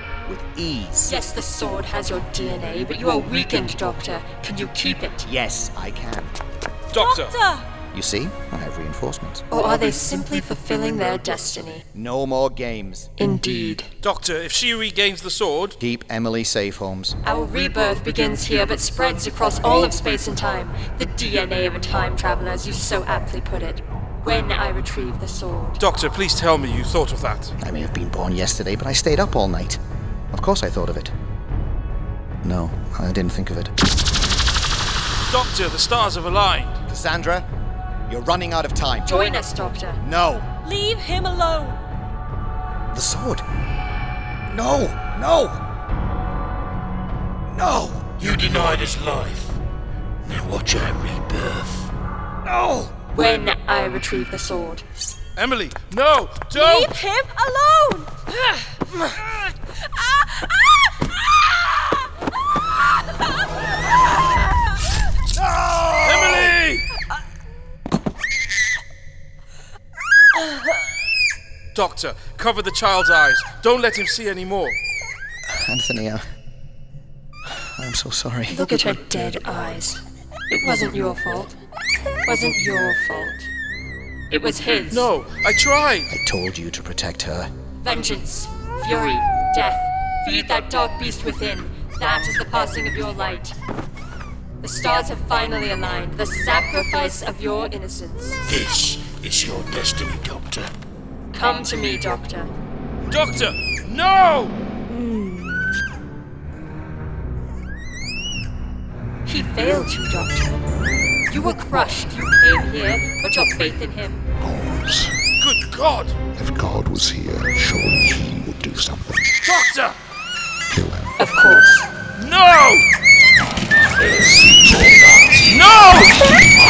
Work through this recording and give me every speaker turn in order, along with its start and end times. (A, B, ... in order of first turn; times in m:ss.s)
0:00.3-0:01.2 A
0:01.1-0:05.3 B
0:05.2-0:06.3 A
0:06.9-0:07.6 C
0:06.9-0:07.6 D
0:07.9-0:09.4 A
0:09.5-0:11.9 B
0:11.9-0:13.1 A
0:13.2-0:13.9 B
0:14.0-0:15.8 C
0:15.8-0:17.2 A
0:17.2-0:25.8 B
0:25.8-0:27.5 C
0:27.6-0:29.8 A
0:30.3-0:31.1 A
0:32.4-0:33.7 A
0:35.3-0:36.8 C
0:36.9-0:37.5 A
0:38.1-0:39.4 A
0:39.1-0:40.0 B
0:40.0-0:40.5 A
0:40.6-0:41.8 D
0:42.9-0:43.4 A
0:44.5-0:45.6 A
0:47.5-0:48.1 A
0:48.2-0:49.6 E
0:50.2-0:51.9 E
0:52.4-0:52.9 A
0:53.1-0:54.8 B
0:55.4-0:57.0 C
0:56.5-0:58.1 D
1:00.0-1:00.5 D
1:06.0-1:06.9 C
1:11.7-1:14.8 C
1:15.5-1:16.2 A
1:17.6-1:18.8 A
1:18.5-1:21.6 B
1:22.2-1:23.5 B
1:24.3-1:25.1 B
1:24.9-1:26.1 C
1:26.1-1:27.5 A
1:27.8-1:33.6 B
1:34.6-1:38.4 B
1:38.4-1:40.7 E
1:41.3-1:42.5 B
1:43.1-1:44.6 C
1:49.3-1:50.6 B
1:51.3-1:54.2 B
1:54.4-1:55.2 F
1:55.4-1:56.2 C
1:56.4-1:59.3 F
1:59.4-2:00.0 C
2:00.7-2:01.1 F
2:01.2-2:01.9 B
2:02.2-2:02.9 C
2:05.5-2:06.2 C